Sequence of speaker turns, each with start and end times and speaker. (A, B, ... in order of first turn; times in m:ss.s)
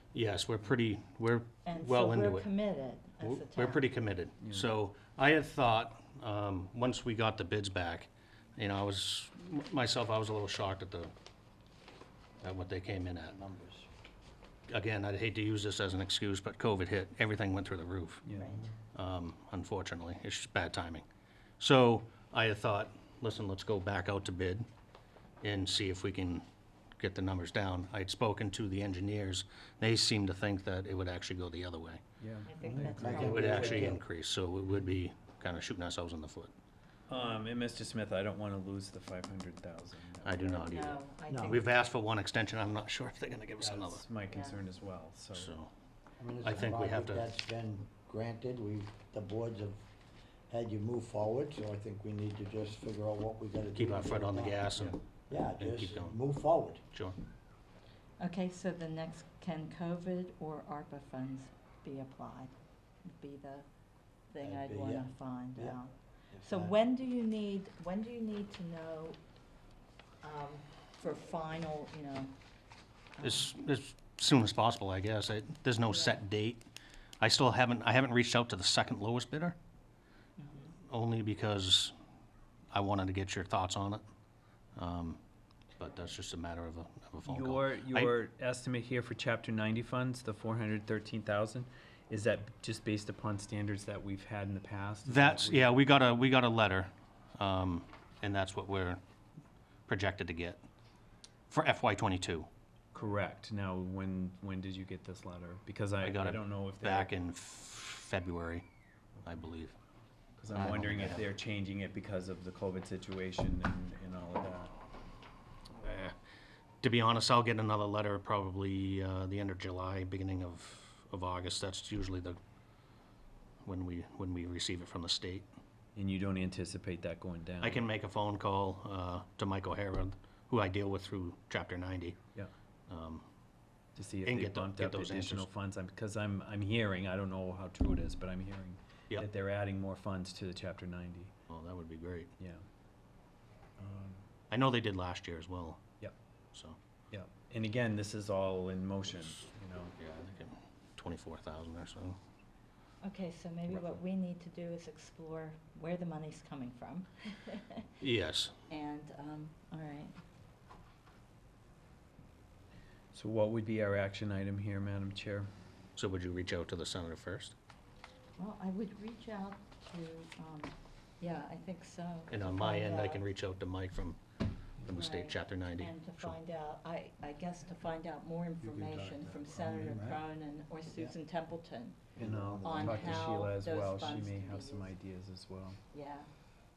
0:00.1-0:02.5 A
0:01.6-0:03.9 B
0:03.2-0:11.1 A
0:04.4-0:04.7 C
0:12.4-0:13.4 A
0:13.2-0:13.9 D
0:14.7-0:18.3 A
0:18.2-0:18.7 C
0:18.3-0:18.7 B
0:18.9-0:21.0 A
0:21.6-0:24.7 A
0:25.4-0:26.4 A
0:27.0-0:32.0 A
0:32.2-0:33.4 C
0:32.5-0:33.9 B
0:32.7-0:34.0 D
0:33.1-0:36.5 A
0:37.1-0:41.0 C
0:40.2-0:44.0 A
0:40.7-0:41.8 B
0:41.3-0:41.6 D
0:43.6-0:45.5 C
0:44.3-0:44.6 B
0:45.3-0:45.7 A
0:46.2-0:49.8 D
0:46.4-0:47.3 A
0:50.5-0:56.8 D
0:53.8-0:55.0 A
0:55.6-0:56.2 A
0:58.2-1:02.5 B
1:03.0-1:03.6 B
1:04.3-1:09.2 B
1:04.4-1:05.8 D
1:06.3-1:06.8 D
1:10.2-1:12.3 B
1:13.2-1:13.5 B
1:13.2-1:16.7 A
1:15.8-1:16.2 B
1:17.2-1:19.6 A
1:20.4-1:20.7 B
1:20.9-1:21.9 A
1:22.7-1:24.0 A
1:24.8-1:25.2 A
1:25.8-1:28.1 A
1:27.2-1:35.9 C
1:35.1-1:39.0 A
1:39.9-1:40.6 A
1:41.5-1:42.5 A
1:42.9-1:47.2 C
1:46.0-1:48.6 A
1:49.2-1:49.8 A
1:50.4-1:54.7 C
1:50.5-1:51.2 A
1:55.8-1:56.2 A
1:56.8-2:02.4 A
2:03.6-2:05.5 A
2:06.0-2:07.9 C
2:07.6-2:12.2 A
2:12.9-2:13.2 A
2:14.0-2:21.3 C
2:14.2-2:15.5 A
2:21.5-2:22.3 A
2:22.4-2:22.6 C
2:23.8-2:24.2 C
2:24.5-2:25.8 A
2:27.1-2:30.0 C
2:30.0-2:32.2 A
2:33.0-2:37.9 B
2:38.0-2:38.5 A
2:38.7-2:40.1 B
2:43.1-2:45.5 C
2:46.0-2:47.6 A
2:48.4-2:53.2 B
2:52.3-2:54.2 A
2:54.8-2:56.4 A
2:54.9-3:02.0 B
2:58.6-3:00.2 D
3:02.2-3:03.4 D
3:02.2-3:05.8 C
3:02.6-3:04.9 B
3:05.9-3:06.3 B